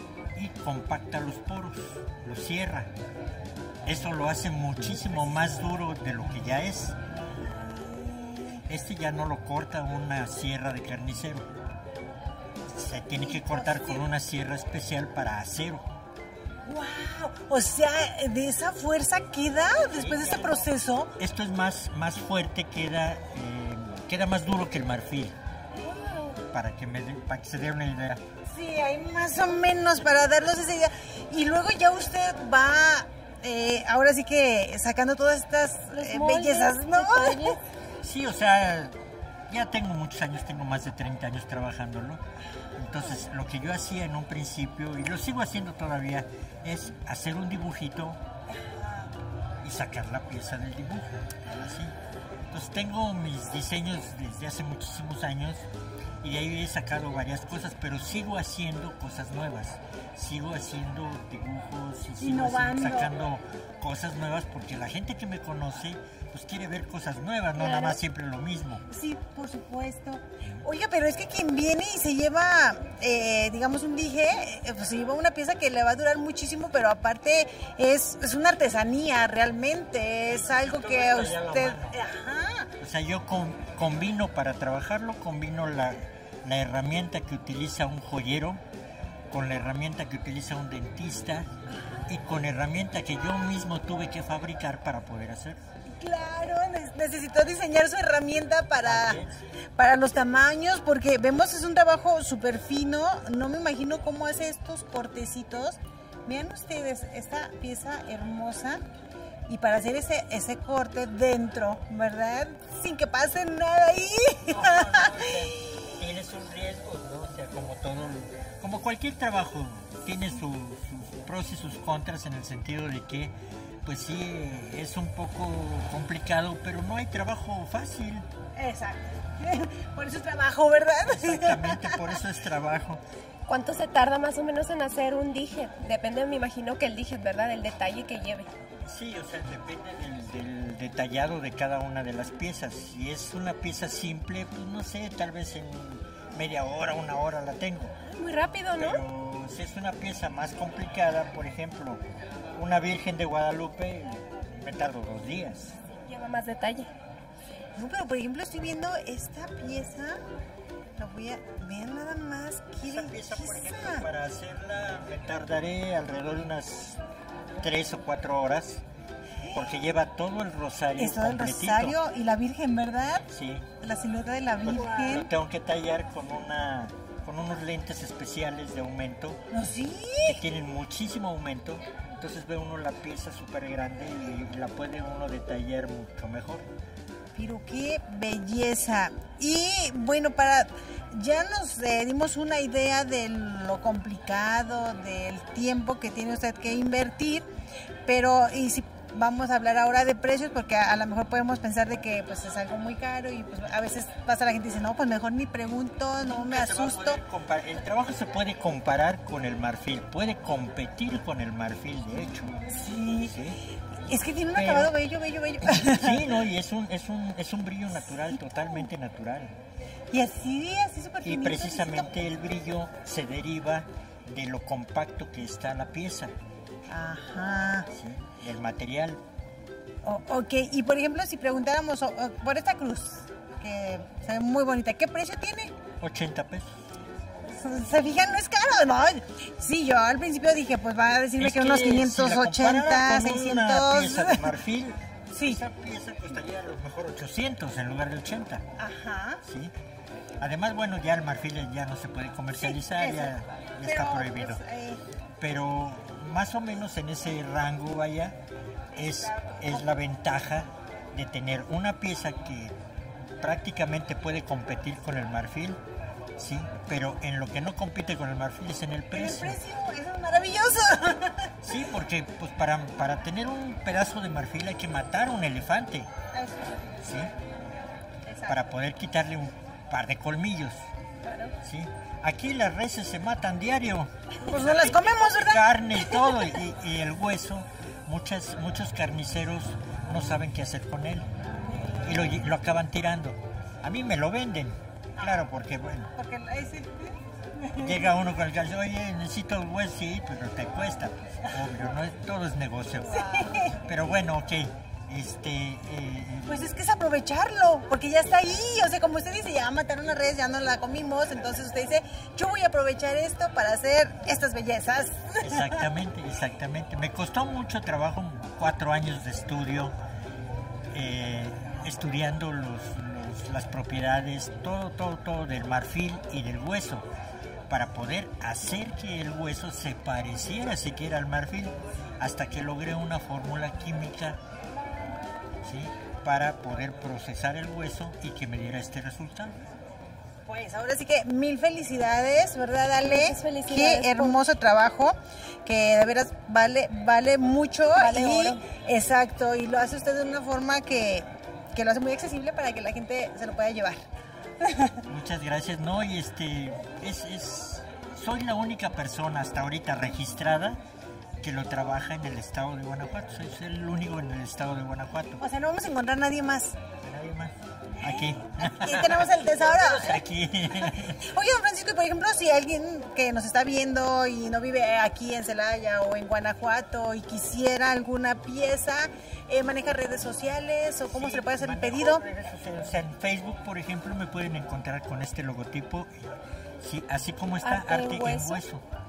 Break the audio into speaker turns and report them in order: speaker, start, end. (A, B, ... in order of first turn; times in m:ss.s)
0:00.3-0:02.9 A
0:03.8-0:07.0 A
0:07.4-0:08.6 B
0:08.7-0:11.5 A
0:12.7-0:15.8 A
0:13.2-0:14.0 B
0:16.7-0:21.1 B
0:19.8-0:25.4 A
0:25.8-0:26.3 C
0:26.5-0:28.2 A
0:28.5-0:37.6 B
0:35.9-0:37.6 C
0:38.0-0:39.0 A
0:39.5-0:42.2 A
0:42.8-0:48.2 A
0:48.5-0:49.1 B
0:49.6-0:52.0 A
0:52.5-0:55.6 A
0:56.2-1:08.8 A
1:02.2-1:03.1 B
1:07.6-1:08.0 C
1:08.9-1:22.7 B
1:20.6-1:22.0 A
1:22.8-1:28.6 A
1:29.3-1:31.5 A
1:32.1-1:35.6 A
1:36.0-1:39.2 B
1:38.8-1:39.4 A
1:39.8-1:48.8 B
1:49.5-1:55.3 B
1:54.5-2:03.3 A
2:03.8-2:08.2 A
2:08.6-2:12.2 B
2:11.0-2:13.0 A
2:13.5-2:18.5 C
2:18.8-2:27.9 A
2:28.1-2:29.0 C
2:28.8-2:32.0 A
2:32.6-2:35.7 A
2:36.1-2:36.9 C
2:37.8-2:40.2 B
2:41.0-2:44.1 B
2:42.8-2:47.0 A
2:47.6-2:48.8 A
2:49.4-2:49.7 B
2:49.5-2:52.0 A
2:51.0-2:53.2 B
2:53.3-2:53.7 A
2:53.8-2:55.3 B
2:54.6-2:59.4 A
2:59.5-3:00.4 B
3:00.2-3:06.6 A
3:07.3-3:17.4 B
3:18.0-3:27.2 B
3:26.2-3:32.6 A
3:32.6-3:33.3 B
3:33.2-3:33.6 A
3:34.1-3:36.4 B
3:34.5-3:34.9 A
3:35.6-3:39.5 A
3:40.1-3:42.2 B
3:41.2-3:46.3 A
3:46.9-3:47.9 B
3:47.9-3:49.2 A
3:50.0-3:55.7 B
3:56.0-3:56.7 A
3:57.5-4:04.5 B
4:01.4-4:08.6 A
4:05.3-4:05.6 B
4:08.8-4:09.4 B
4:09.4-4:09.7 A
4:10.4-4:14.6 A
4:12.6-4:15.0 B
4:15.4-4:18.4 A
4:18.9-4:22.7 A
4:23.4-4:25.8 A
4:26.4-4:29.6 A
4:29.1-4:31.5 B
4:31.6-4:36.1 A
4:36.3-4:36.9 B
4:37.0-4:37.3 A
4:38.4-4:40.8 A
4:41.2-4:41.5 C
4:41.6-4:51.2 A
4:44.4-4:46.5 B
4:52.0-4:56.1 A
4:55.2-4:55.4 B
4:56.1-4:58.1 B
4:57.8-5:06.7 A
5:03.1-5:03.8 B
5:06.5-5:15.8 B
5:15.4-5:19.9 A
5:20.9-5:27.1 A
5:27.7-5:34.4 A
5:35.6-5:39.5 A
5:40.4-5:54.0 B
5:43.0-5:44.4 C
5:47.9-5:48.6 C
5:54.6-5:55.0 B
5:55.0-6:00.8 A
6:01.4-6:05.4 A
6:05.4-6:06.8 B
6:07.0-6:11.2 A
6:08.0-6:10.2 B
6:10.8-6:22.2 B
6:21.1-6:26.2 A
6:26.8-6:28.8 A
6:27.6-6:28.6 C